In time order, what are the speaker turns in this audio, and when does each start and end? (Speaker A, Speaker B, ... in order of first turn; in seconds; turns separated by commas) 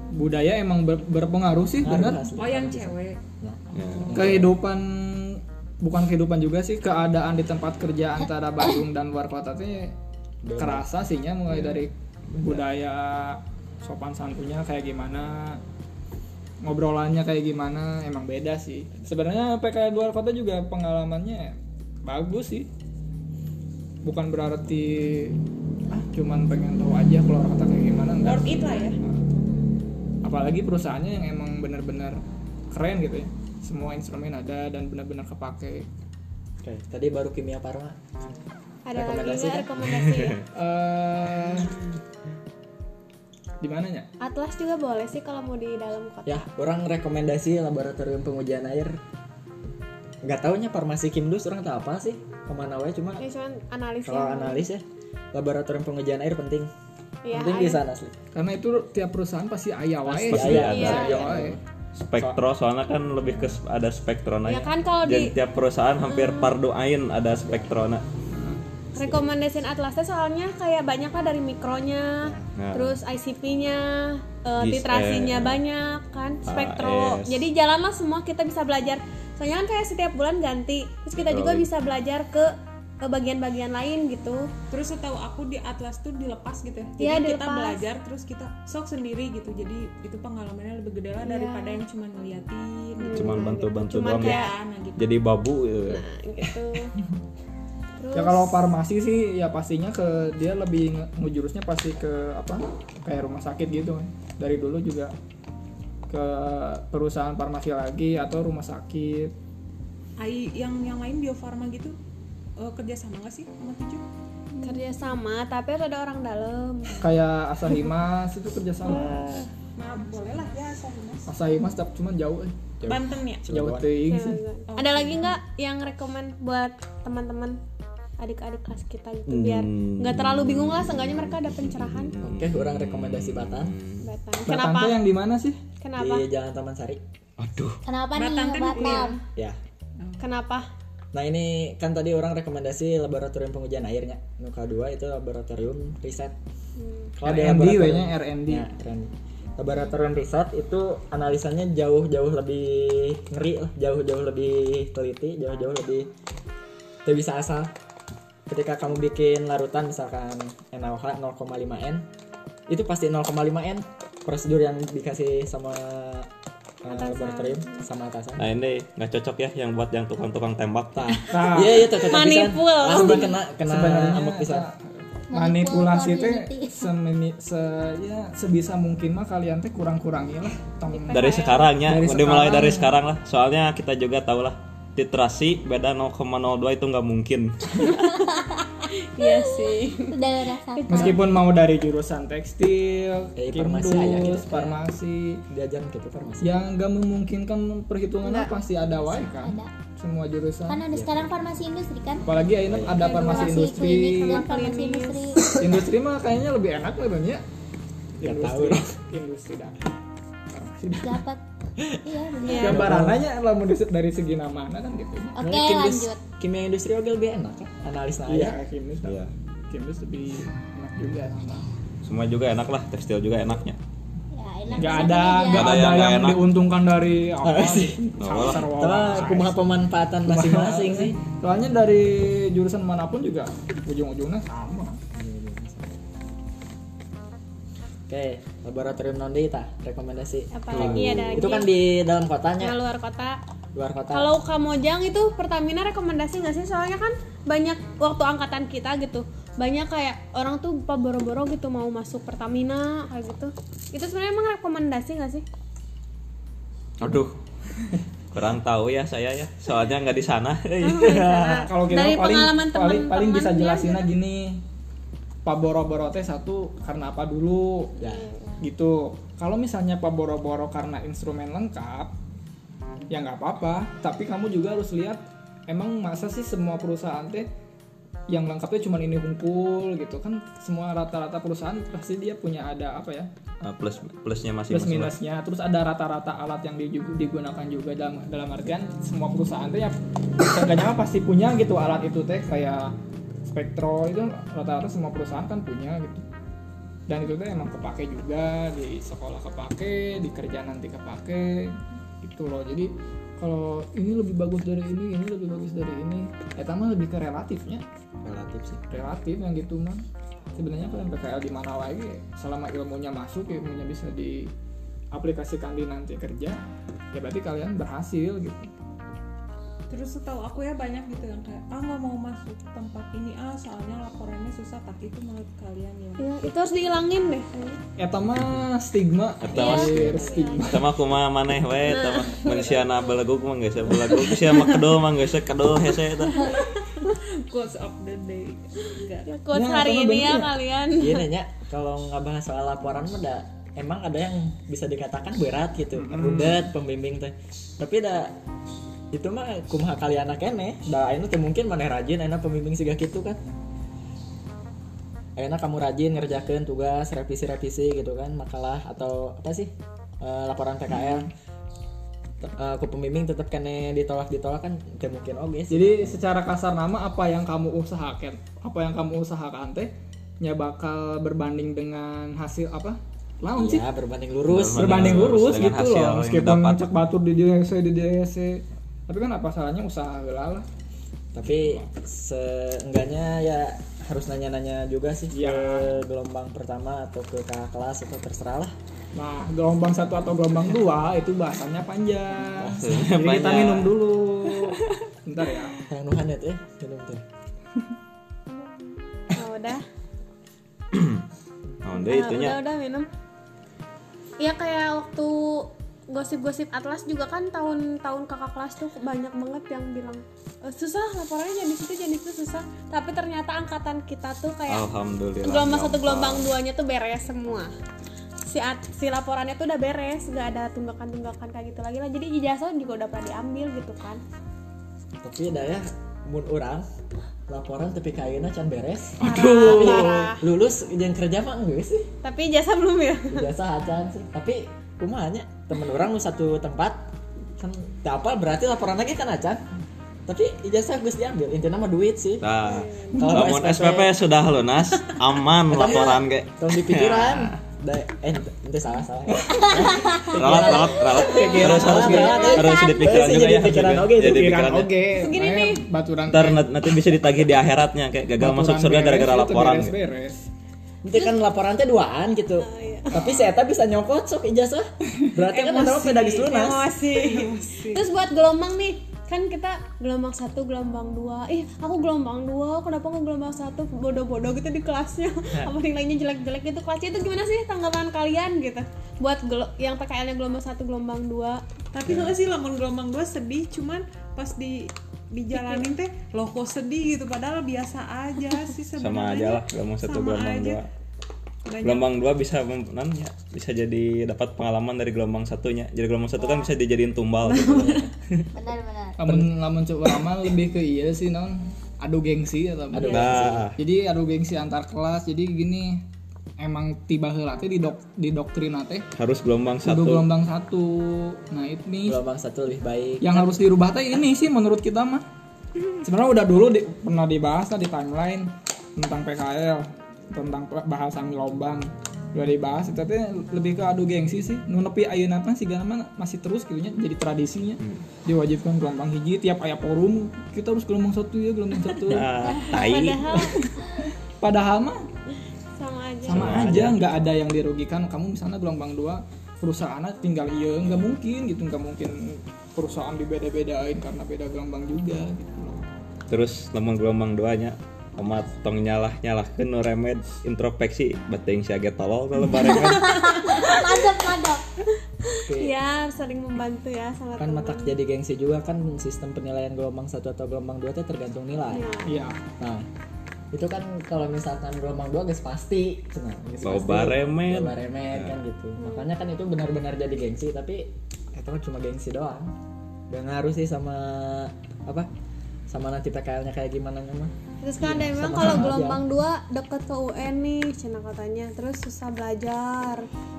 Speaker A: 0.1-2.3, Speaker B: 1.8-4.5, Speaker C: 2.3-3.2, Speaker D: 3.7-4.5, Speaker A: 4.1-9.9, Speaker B: 10.4-10.9, Speaker A: 10.6-15.6, Speaker A: 16.6-22.7, Speaker A: 24.0-29.2, Speaker C: 28.2-29.0, Speaker A: 30.2-32.2, Speaker A: 32.7-35.9, Speaker B: 36.6-38.1, Speaker E: 38.9-40.4, Speaker B: 38.9-39.7, Speaker D: 39.9-40.4, Speaker A: 40.5-41.8, Speaker A: 43.6-44.1, Speaker E: 44.2-46.4, Speaker B: 46.3-49.0, Speaker B: 50.2-53.2, Speaker E: 53.2-54.6, Speaker B: 54.0-56.7, Speaker E: 57.2-57.8, Speaker B: 57.3-58.1, Speaker A: 58.3-61.6, Speaker B: 60.1-61.6, Speaker D: 60.2-61.0, Speaker E: 60.7-61.4, Speaker D: 62.0-68.0, Speaker B: 63.2-63.6, Speaker E: 64.5-65.3, Speaker E: 66.0-66.5, Speaker B: 67.3-67.7, Speaker A: 68.3-68.6, Speaker E: 69.0-84.5, Speaker B: 69.0-69.3, Speaker B: 72.2-72.5, Speaker D: 72.6-73.0, Speaker D: 74.6-75.6, Speaker D: 76.5-77.5, Speaker D: 81.2-81.7, Speaker C: 84.7-93.5, Speaker E: 87.0-87.9, Speaker E: 91.2-91.8, Speaker E: 93.0-94.5, Speaker D: 93.1-94.4, Speaker C: 94.1-95.0, Speaker D: 95.0-96.0, Speaker E: 95.9-97.0, Speaker E: 98.0-98.6, Speaker A: 98.2-105.1, Speaker A: 106.1-109.3, Speaker C: 110.2-112.0, Speaker C: 112.6-114.0, Speaker F: 114.6-114.9, Speaker E: 114.6-117.1, Speaker A: 117.0-119.3, Speaker E: 118.9-119.5, Speaker C: 119.8-121.3, Speaker A: 121.3-122.8, Speaker B: 122.8-123.9, Speaker C: 122.9-123.5, Speaker A: 123.5-124.4, Speaker E: 124.1-127.6, Speaker C: 124.7-125.4, Speaker E: 128.2-132.1, Speaker D: 129.3-134.1, Speaker B: 132.2-133.8, Speaker E: 134.0-135.0, Speaker A: 134.5-135.6, Speaker E: 135.8-136.2, Speaker B: 136.0-137.0, Speaker D: 137.4-137.8, Speaker F: 137.8-139.2, Speaker C: 138.2-139.2, Speaker E: 138.8-139.0, Speaker E: 140.2-140.7, Speaker B: 141.1-146.3, Speaker E: 146.8-147.1, Speaker B: 147.2-156.1, Speaker A: 147.2-148.7, Speaker B: 157.1-157.7, Speaker B: 158.5-162.1, Speaker B: 162.7-166.3, Speaker B: 166.8-168.5, Speaker E: 166.9-167.8, Speaker D: 168.4-171.2, Speaker B: 170.9-174.7, Speaker A: 171.3-172.0, Speaker E: 172.0-173.3, Speaker A: 172.9-183.0, Speaker F: 175.3-176.9, Speaker E: 180.9-181.6, Speaker D: 181.1-188.0, Speaker E: 187.8-188.2, Speaker E: 189.1-190.2, Speaker F: 189.2-191.2, Speaker E: 190.7-191.2, Speaker A: 190.9-195.4, Speaker B: 193.4-194.8, Speaker B: 195.5-196.6, Speaker A: 196.4-200.8, Speaker F: 199.2-199.7, Speaker F: 200.7-202.3, Speaker B: 200.9-201.2, Speaker A: 202.2-204.5, Speaker B: 202.6-203.2, Speaker F: 203.0-205.6, Speaker E: 203.0-205.4, Speaker A: 205.5-207.4, Speaker B: 208.2-208.9, Speaker A: 208.2-209.8, Speaker A: 210.5-211.2, Speaker F: 211.0-211.4, Speaker F: 212.0-212.9, Speaker E: 212.4-212.8, Speaker A: 212.5-215.3, Speaker B: 212.6-213.2, Speaker F: 215.3-216.2, Speaker B: 215.4-218.6, Speaker A: 218.3-221.7, Speaker D: 219.0-219.3, Speaker D: 222.0-223.8, Speaker F: 224.3-225.8, Speaker A: 224.8-229.5, Speaker D: 225.5-226.4, Speaker B: 227.4-231.2, Speaker D: 228.2-228.7, Speaker A: 230.3-235.0, Speaker B: 235.1-236.0, Speaker B: 238.1-242.8, Speaker E: 240.5-241.7, Speaker D: 240.7-241.5, Speaker E: 242.6-243.4, Speaker B: 243.8-244.3, Speaker E: 244.1-255.4, Speaker D: 257.0-257.3, Speaker D: 258.3-261.6, Speaker E: 260.8-264.1, Speaker A: 261.6-264.6, Speaker A: 265.4-267.9, Speaker B: 268.0-268.3, Speaker E: 268.0-268.6, Speaker A: 268.6-272.1, Speaker A: 273.1-277.5, Speaker A: 278.3-283.3, Speaker D: 283.6-285.2, Speaker A: 284.7-292.9, Speaker A: 293.5-296.2, Speaker A: 297.1-307.8, Speaker B: 308.2-308.8, Speaker A: 308.9-310.1, Speaker A: 310.6-314.5, Speaker A: 315.1-316.6, Speaker A: 317.1-318.7, Speaker C: 319.9-326.3, Speaker E: 326.2-327.8, Speaker A: 328.0-330.9, Speaker D: 329.4-336.6, Speaker E: 329.5-330.7, Speaker E: 331.9-332.8, Speaker C: 336.4-339.4, Speaker E: 339.3-341.2, Speaker A: 339.5-340.6, Speaker B: 341.0-348.4, Speaker A: 345.9-346.7, Speaker B: 349.1-353.4, Speaker B: 355.4-361.3, Speaker B: 362.4-366.2, Speaker A: 365.7-373.8, Speaker B: 373.5-375.3, Speaker D: 374.5-376.8, Speaker A: 374.8-380.7, Speaker B: 381.3-388.7, Speaker A: 381.5-381.9, Speaker A: 385.3-385.9, Speaker A: 389.1-395.8, Speaker B: 392.5-393.0, Speaker D: 392.7-393.9, Speaker B: 395.9-397.2, Speaker E: 399.3-399.8, Speaker D: 400.9-401.2, Speaker D: 401.8-402.6, Speaker E: 401.9-403.1, Speaker E: 404.4-414.9, Speaker D: 414.7-416.5, Speaker E: 415.4-417.7, Speaker E: 418.5-424.2, Speaker B: 425.2-426.9, Speaker B: 427.5-432.1, Speaker D: 429.2-430.3, Speaker E: 429.2-430.4, Speaker E: 432.2-433.5, Speaker B: 433.3-439.6, Speaker B: 440.3-442.5, Speaker D: 442.4-447.6, Speaker E: 442.6-443.2, Speaker B: 443.1-444.2, Speaker B: 445.7-454.6, Speaker D: 450.1-454.9, Speaker A: 450.4-452.5, Speaker E: 451.3-453.2, Speaker F: 452.4-452.9, Speaker A: 454.2-456.8, Speaker E: 455.2-455.9, Speaker D: 456.3-460.0, Speaker A: 458.4-460.5, Speaker B: 461.0-466.9, Speaker E: 462.6-463.1, Speaker A: 463.1-463.5, Speaker E: 465.6-481.6, Speaker C: 465.7-466.1, Speaker C: 467.1-468.1, Speaker C: 481.9-490.8, Speaker D: 482.1-482.3, Speaker E: 485.5-485.8, Speaker D: 489.0-490.9, Speaker C: 491.7-492.1, Speaker D: 491.8-498.1, Speaker C: 497.6-498.0, Speaker F: 498.5-499.2, Speaker A: 499.2-506.0, Speaker B: 499.2-499.5, Speaker B: 502.9-503.7, Speaker D: 503.0-503.8, Speaker A: 506.6-509.1, Speaker D: 509.2-510.3, Speaker A: 509.8-512.2, Speaker B: 512.0-513.6, Speaker A: 513.2-515.2, Speaker A: 516.0-532.3, Speaker D: 532.1-533.4, Speaker E: 532.5-533.6, Speaker A: 533.3-535.1, Speaker E: 535.8-536.5, Speaker A: 536.2-545.8, Speaker D: 536.3-537.0, Speaker D: 546.3-553.6, Speaker F: 552.7-554.6, Speaker E: 555.3-558.0, Speaker B: 555.4-555.8, Speaker B: 557.4-561.9, Speaker E: 561.7-562.2, Speaker A: 562.1-562.4, Speaker B: 562.6-562.9, Speaker B: 563.5-572.5, Speaker D: 566.6-568.4, Speaker E: 568.8-569.1, Speaker B: 573.1-575.1, Speaker B: 575.7-579.0, Speaker E: 577.6-583.1